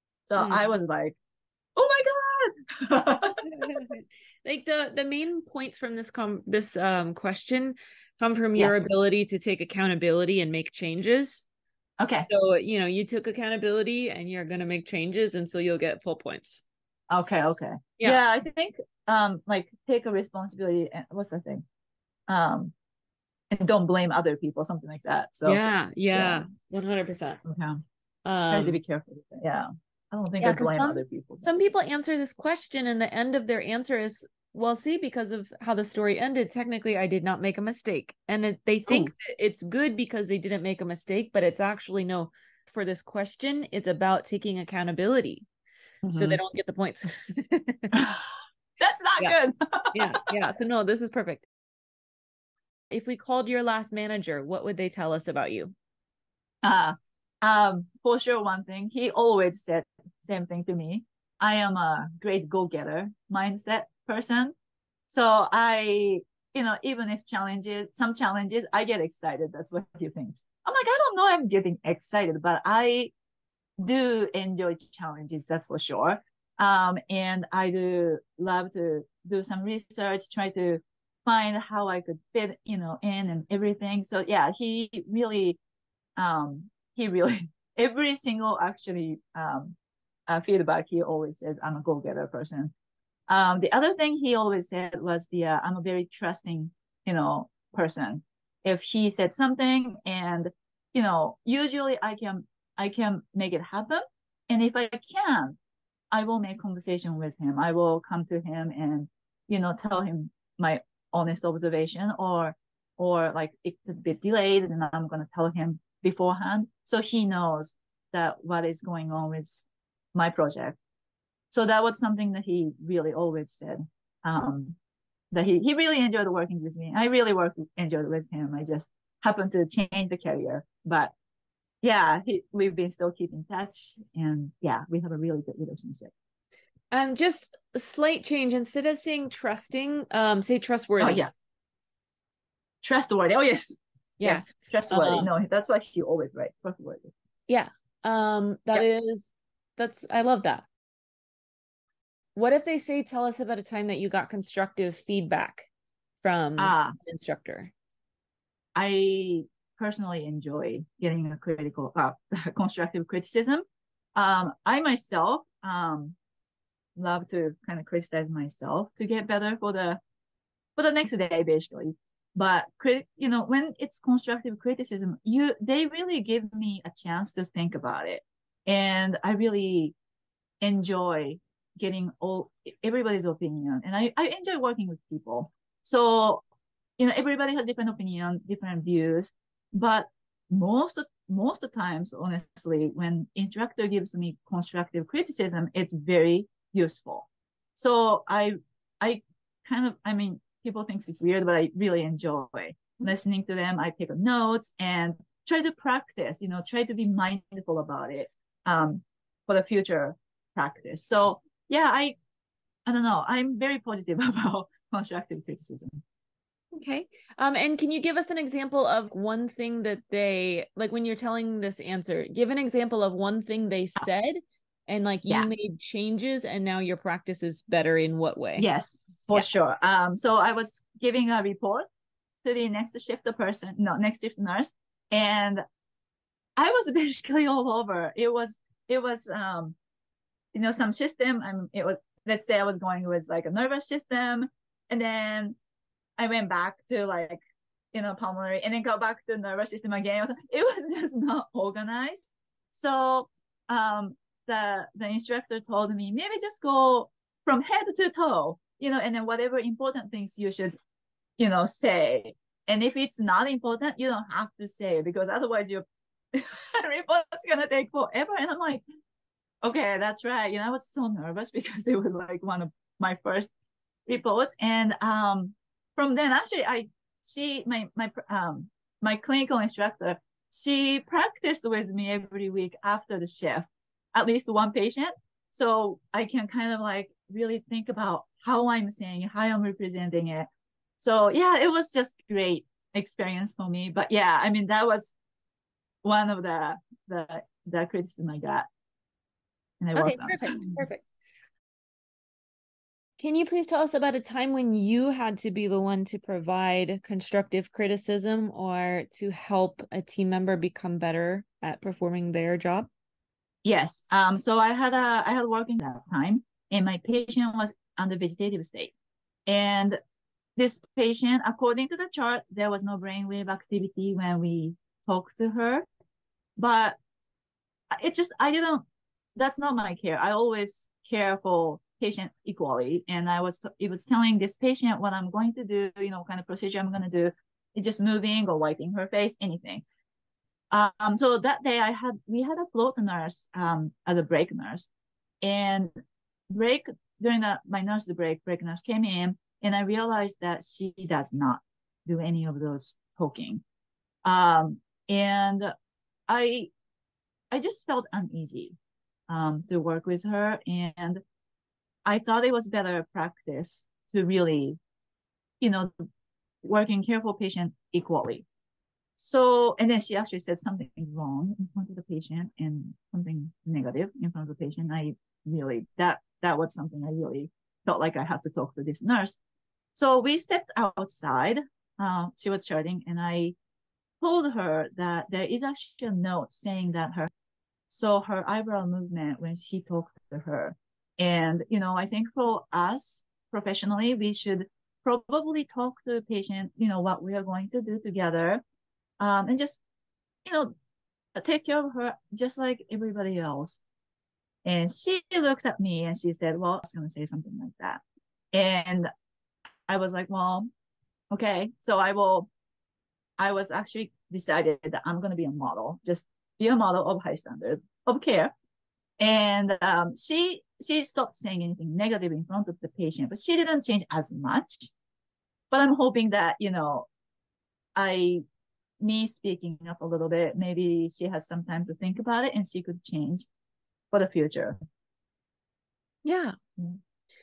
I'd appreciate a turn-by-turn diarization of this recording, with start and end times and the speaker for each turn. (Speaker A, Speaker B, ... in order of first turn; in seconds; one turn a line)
Speaker A: 0.3-1.2
Speaker B: 0.4-0.7
Speaker A: 1.8-3.4
Speaker B: 3.1-11.5
Speaker A: 8.6-8.9
Speaker A: 12.0-12.3
Speaker B: 12.3-16.6
Speaker A: 17.1-21.6
Speaker A: 22.3-22.7
Speaker A: 23.5-25.6
Speaker B: 25.4-27.4
Speaker A: 26.1-26.4
Speaker A: 27.4-27.8
Speaker B: 28.2-28.8
Speaker A: 28.5-31.5
Speaker B: 30.4-45.5
Speaker A: 46.0-46.4
Speaker B: 46.1-48.0
Speaker A: 47.9-48.3
Speaker A: 48.8-50.0
Speaker B: 49.9-51.5
Speaker B: 52.9-55.7
Speaker A: 56.6-64.5
Speaker A: 65.1-73.1
Speaker A: 73.8-85.6
Speaker A: 86.2-89.8
Speaker A: 90.3-92.7
Speaker A: 93.3-105.6
Speaker A: 106.1-120.8
Speaker A: 121.5-124.8
Speaker A: 125.3-131.1
Speaker A: 131.8-136.1
Speaker B: 136.9-141.2
Speaker A: 141.0-141.3
Speaker A: 142.8-147.1
Speaker B: 144.2-145.3
Speaker B: 147.5-150.7
Speaker B: 152.3-157.7
Speaker A: 156.6-156.9
Speaker A: 158.8-163.7
Speaker A: 164.2-166.2
Speaker A: 167.0-170.0
Speaker A: 170.8-179.9
Speaker A: 180.6-186.4
Speaker A: 187.0-212.2
Speaker A: 212.9-216.0
Speaker B: 216.7-228.7
Speaker A: 228.6-231.9
Speaker A: 232.4-235.6
Speaker A: 236.6-239.8
Speaker A: 240.5-245.6
Speaker A: 246.2-247.4
Speaker A: 247.9-260.8
Speaker A: 261.4-268.8
Speaker A: 269.6-273.5
Speaker A: 274.1-295.1
Speaker A: 296.0-298.7
Speaker A: 299.8-300.8
Speaker B: 299.9-301.1
Speaker B: 303.2-312.9
Speaker A: 313.6-318.9
Speaker A: 319.5-320.0
Speaker A: 320.6-325.9
Speaker A: 326.6-327.0
Speaker A: 327.9-328.9
Speaker A: 329.4-339.8
Speaker A: 340.7-344.9
Speaker A: 345.4-345.9
Speaker A: 346.5-353.6
Speaker A: 354.2-355.7
Speaker A: 356.3-356.7
Speaker A: 357.5-358.8
Speaker A: 359.3-361.2
Speaker A: 362.1-364.8
Speaker A: 365.6-365.9
Speaker A: 366.6-368.5
Speaker A: 369.2-379.4
Speaker A: 379.9-383.6
Speaker A: 384.2-387.3
Speaker A: 387.9-398.6
Speaker A: 399.2-399.8
Speaker A: 400.4-400.7
Speaker A: 401.4-403.8
Speaker A: 404.6-409.1
Speaker A: 409.9-410.7
Speaker A: 411.3-412.5
Speaker A: 413.4-418.5
Speaker A: 419.2-424.9
Speaker A: 425.7-427.1
Speaker A: 428.0-428.4
Speaker A: 429.0-433.5
Speaker A: 434.1-434.8
Speaker B: 436.2-436.6